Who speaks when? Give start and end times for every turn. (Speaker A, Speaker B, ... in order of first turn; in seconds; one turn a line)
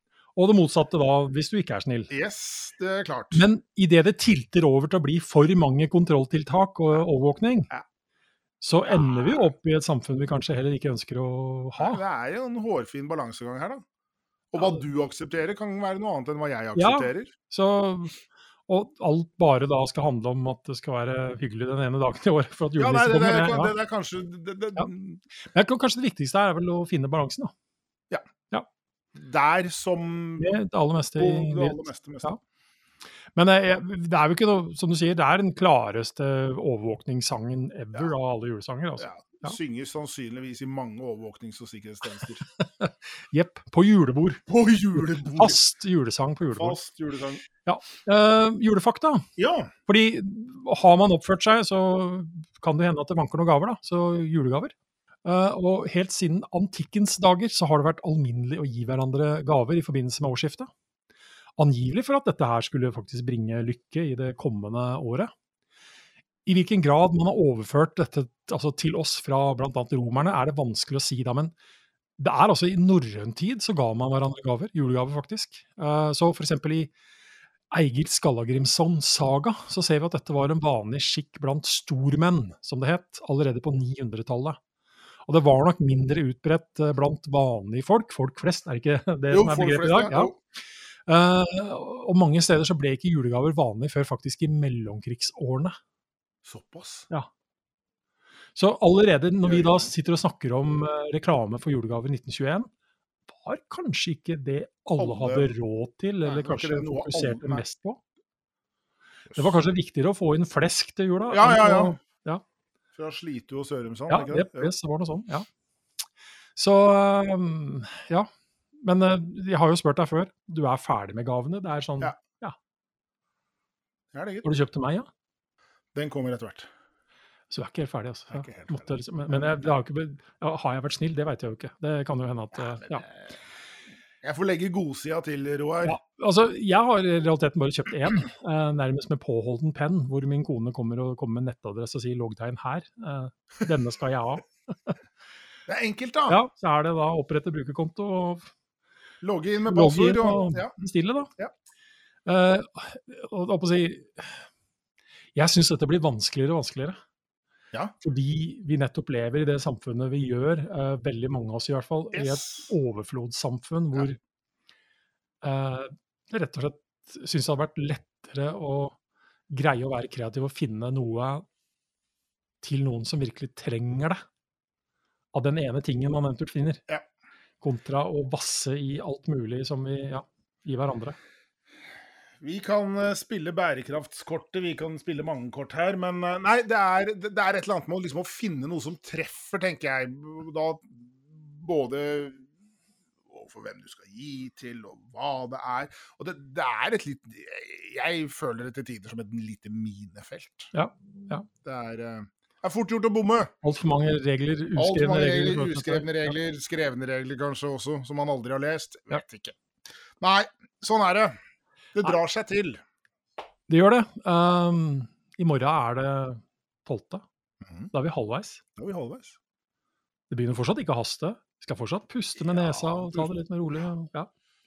Speaker A: 0.4-2.1
Speaker B: 2.1-3.5
Speaker A: 3.3-7.7
Speaker A: 8.6-12.0
Speaker B: 8.8-9.5
Speaker B: 11.8-13.8
Speaker B: 14.5-17.3
Speaker A: 14.6-14.8
Speaker A: 16.8-23.8
Speaker B: 22.8-25.2
Speaker A: 25.5-27.5
Speaker B: 29.2-30.5
Speaker A: 30.4-32.4
Speaker B: 31.2-32.3
Speaker A: 33.4-39.6
Speaker B: 39.0-42.4
Speaker A: 42.5-44.4
Speaker B: 44.5-45.6
Speaker A: 45.0-46.8
Speaker B: 46.5-47.5
Speaker A: 47.6-49.2
Speaker B: 49.4-49.7
Speaker A: 49.9-54.7
Speaker A: 55.2-60.7
Speaker A: 61.6-65.3
Speaker A: 66.5-71.5
Speaker A: 72.2-76.9
Speaker A: 77.7-84.6
Speaker A: 85.3-90.3
Speaker B: 89.3-90.3
Speaker A: 91.1-95.8
Speaker B: 96.5-97.1
Speaker A: 98.5-102.7
Speaker B: 99.4-99.9
Speaker A: 103.3-108.0
Speaker B: 105.0-105.5
Speaker B: 106.2-107.7
Speaker B: 109.3-109.6
Speaker A: 109.3-112.4
Speaker B: 111.3-112.0
Speaker B: 113.0-114.7
Speaker A: 114.1-115.5
Speaker A: 116.6-118.3
Speaker A: 118.8-122.5
Speaker B: 124.1-124.5
Speaker A: 124.4-125.1
Speaker B: 126.0-126.7
Speaker A: 127.5-133.1
Speaker B: 128.3-129.6
Speaker B: 134.2-136.0
Speaker A: 135.8-144.9
Speaker B: 145.7-146.4
Speaker A: 146.3-148.5
Speaker B: 149.2-150.7
Speaker A: 149.6-151.3
Speaker A: 152.3-154.4
Speaker A: 155.3-157.0
Speaker A: 158.0-164.2
Speaker B: 162.1-162.7
Speaker A: 165.4-169.0
Speaker A: 169.5-171.4
Speaker A: 172.6-174.2
Speaker A: 175.3-176.8
Speaker A: 177.6-181.2
Speaker B: 182.4-192.4
Speaker B: 193.3-200.7
Speaker A: 200.7-201.5
Speaker B: 201.5-203.5
Speaker A: 203.6-206.3
Speaker B: 204.8-209.6
Speaker B: 210.2-211.3
Speaker B: 211.9-212.8
Speaker A: 213.7-217.2
Speaker B: 217.7-217.9
Speaker A: 217.9-218.6
Speaker B: 218.8-219.4
Speaker A: 220.3-224.3
Speaker B: 222.4-223.3